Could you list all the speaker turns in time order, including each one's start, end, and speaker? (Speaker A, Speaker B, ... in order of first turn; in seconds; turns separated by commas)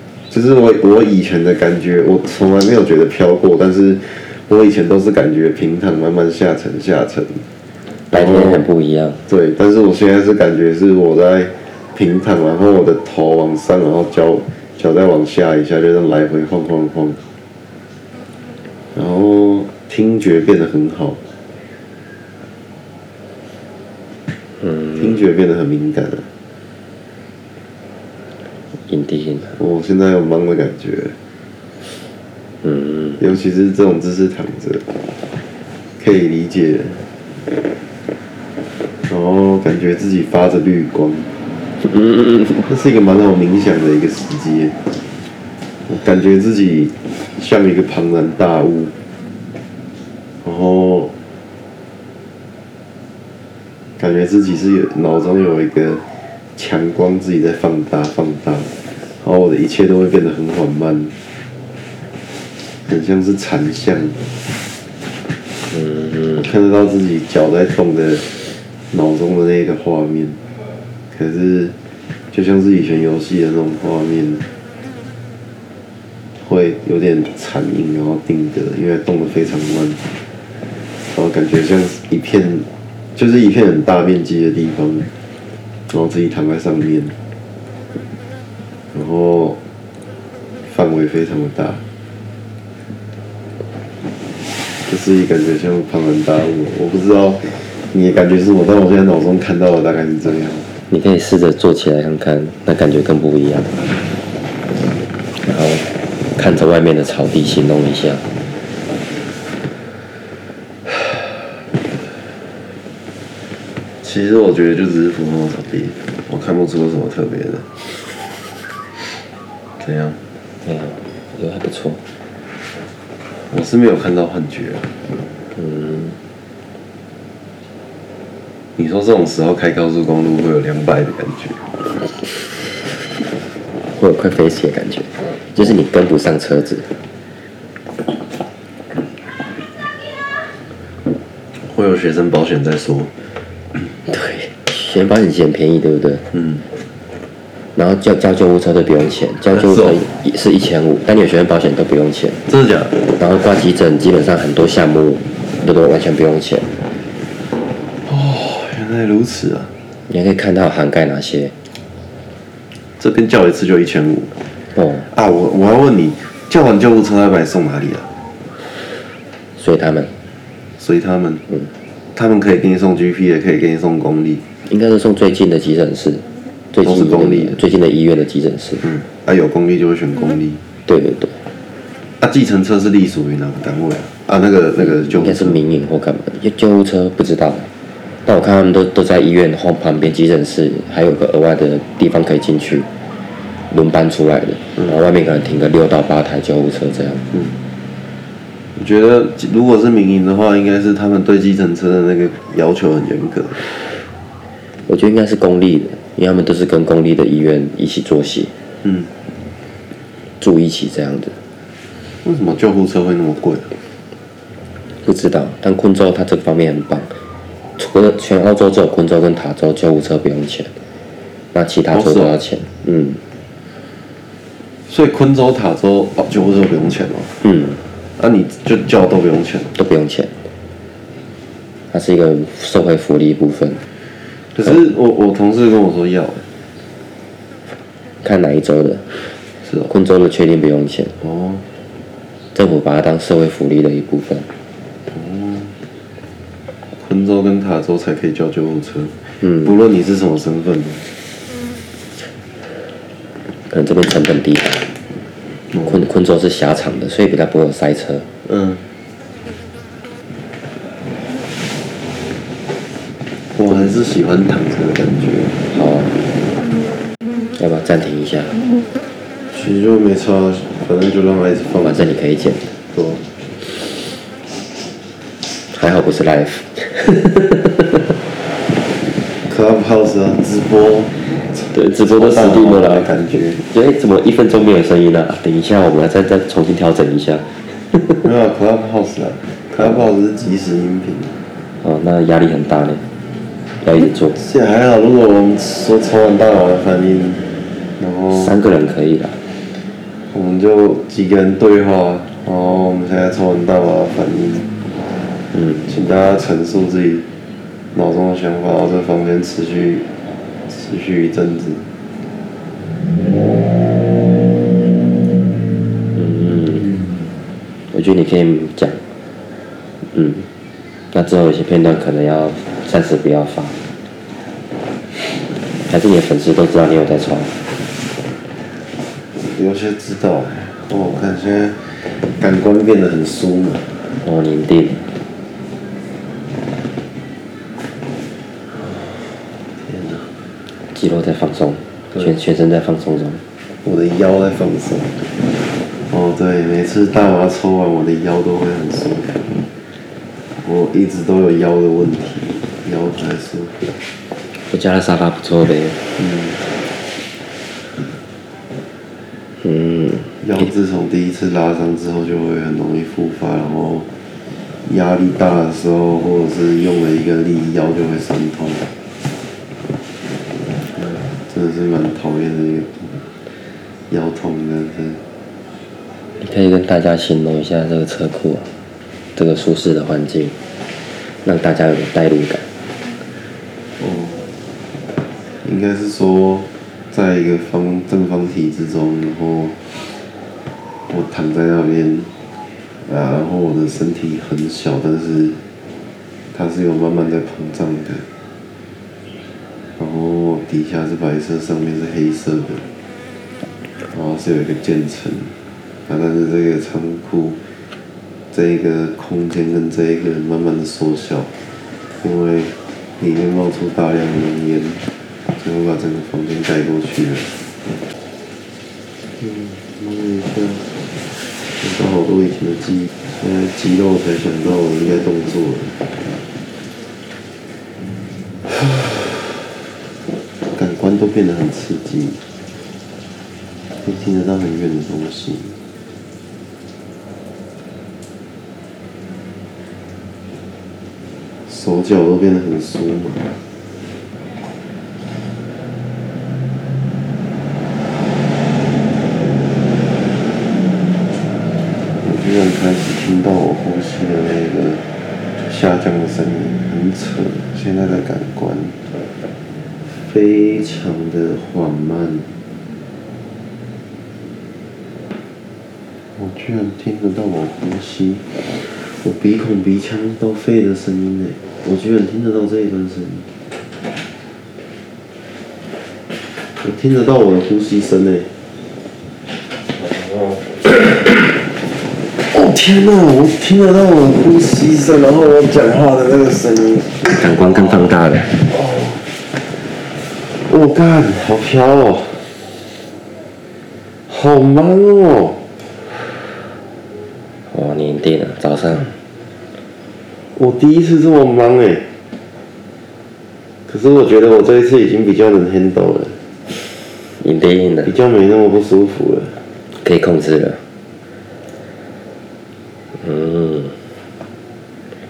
Speaker A: 0.3-7.5, Speaker B: 8.1-9.2, Speaker A: 8.1-8.7, Speaker A: 9.3-17.2, Speaker A: 18.9-21.2, Speaker B: 24.6-25.2, Speaker A: 25.0-26.3, Speaker B: 28.9-29.6, Speaker A: 29.6-31.1, Speaker B: 32.6-33.2, Speaker A: 33.2-34.8, Speaker A: 36.0-37.1, Speaker A: 39.1-41.3, Speaker B: 41.8-42.7, Speaker A: 42.7-44.8, Speaker A: 45.9-48.9, Speaker A: 50.4-51.1, Speaker A: 54.0-56.0, Speaker A: 56.6-61.1, Speaker A: 62.8-64.2, Speaker B: 65.7-66.5, Speaker A: 66.4-68.3, Speaker A: 68.9-70.4, Speaker A: 71.1-71.7, Speaker A: 72.3-74.4, Speaker A: 76.4-80.0, Speaker A: 81.1-85.1, Speaker A: 85.9-87.2, Speaker A: 88.9-89.6, Speaker A: 90.7-91.8, Speaker A: 94.9-100.7, Speaker B: 100.9-103.8, Speaker B: 105.4-108.3, Speaker A: 114.0-118.2, Speaker A: 119.8-120.2, Speaker B: 120.6-122.0, Speaker A: 123.5-124.9, Speaker B: 125.5-126.2, Speaker A: 128.8-131.6, Speaker B: 133.9-136.9, Speaker A: 141.6-143.1, Speaker B: 144.1-146.2, Speaker B: 147.8-152.4, Speaker A: 149.5-150.1, Speaker A: 152.5-153.0, Speaker B: 153.2-156.7, Speaker A: 158.1-159.7, Speaker B: 160.1-161.5, Speaker A: 163.0-164.3, Speaker B: 164.8-165.1, Speaker A: 165.1-168.1, Speaker B: 169.6-170.1, Speaker A: 170.8-171.4, Speaker A: 172.2-174.4, Speaker B: 174.7-178.9, Speaker A: 176.8-177.6, Speaker A: 178.8-180.6, Speaker B: 180.9-181.4, Speaker A: 182.2-185.6, Speaker B: 184.8-187.7, Speaker B: 188.2-192.9, Speaker B: 193.7-197.2, Speaker A: 198.8-203.7, Speaker B: 204.9-208.5, Speaker A: 208.8-209.1, Speaker B: 210.4-211.4, Speaker A: 212.2-213.7, Speaker B: 215.0-217.2, Speaker B: 217.8-220.7, Speaker B: 221.5-223.2, Speaker A: 221.9-222.4, Speaker A: 224.9-227.3, Speaker B: 227.4-227.8, Speaker A: 228.2-229.8, Speaker B: 229.8-230.4, Speaker B: 231.9-233.8, Speaker A: 234.5-236.4, Speaker B: 238.2-239.3, Speaker A: 239.7-239.9, Speaker B: 239.9-241.1, Speaker A: 241.2-241.7, Speaker B: 242.5-244.5, Speaker A: 245.1-245.8, Speaker A: 246.9-251.1, Speaker B: 253.7-254.9, Speaker B: 255.8-258.3, Speaker A: 258.4-258.8, Speaker A: 263.6-265.6, Speaker B: 265.7-266.1, Speaker B: 267.6-268.6, Speaker A: 269.5-272.2, Speaker B: 271.8-272.8, Speaker A: 272.9-273.2, Speaker B: 275.7-278.0, Speaker A: 279.4-283.6, Speaker B: 281.7-288.3, Speaker A: 288.2-291.4, Speaker B: 291.8-293.0, Speaker B: 293.8-294.4, Speaker A: 294.3-298.6, Speaker B: 298.3-299.4, Speaker A: 300.3-304.7, Speaker A: 305.8-307.2, Speaker A: 307.9-310.1, Speaker A: 310.7-311.8, Speaker B: 316.1-317.0, Speaker B: 317.9-319.0, Speaker B: 320.0-320.5, Speaker B: 321.1-323.8, Speaker B: 325.9-327.6, Speaker A: 329.4-334.1, Speaker B: 334.1-335.1, Speaker A: 338.9-340.3, Speaker B: 340.9-343.4, Speaker A: 343.9-345.2, Speaker A: 346.1-349.5, Speaker A: 350.6-353.8, Speaker B: 354.6-356.0, Speaker A: 356.2-356.6, Speaker B: 359.6-360.7, Speaker A: 360.4-364.1, Speaker A: 364.8-368.9, Speaker A: 371.0-373.3, Speaker A: 374.1-375.2, Speaker B: 376.4-378.7, Speaker B: 379.4-380.6, Speaker B: 381.4-382.7, Speaker A: 384.0-384.5, Speaker A: 385.6-389.8, Speaker A: 391.1-392.3, Speaker A: 393.0-395.6, Speaker A: 396.5-398.2, Speaker A: 400.0-402.8, Speaker A: 404.0-405.6, Speaker A: 406.1-407.6, Speaker A: 408.5-411.5, Speaker A: 412.2-415.1, Speaker A: 415.6-417.5, Speaker A: 419.4-420.9, Speaker A: 421.7-426.0, Speaker A: 430.7-432.4, Speaker A: 434.0-435.8, Speaker A: 441.7-443.5, Speaker A: 452.2-455.0, Speaker A: 455.6-459.0, Speaker A: 460.1-462.5, Speaker A: 466.4-473.5, Speaker A: 476.8-478.5, Speaker A: 480.9-481.2, Speaker A: 482.4-487.8, Speaker B: 487.2-488.6, Speaker A: 488.6-489.3, Speaker A: 490.4-492.6, Speaker A: 494.3-495.7, Speaker B: 497.7-499.1, Speaker A: 500.6-502.1, Speaker A: 503.9-506.4, Speaker B: 507.4-508.1, Speaker A: 508.1-509.6, Speaker B: 509.9-510.9, Speaker B: 513.1-514.1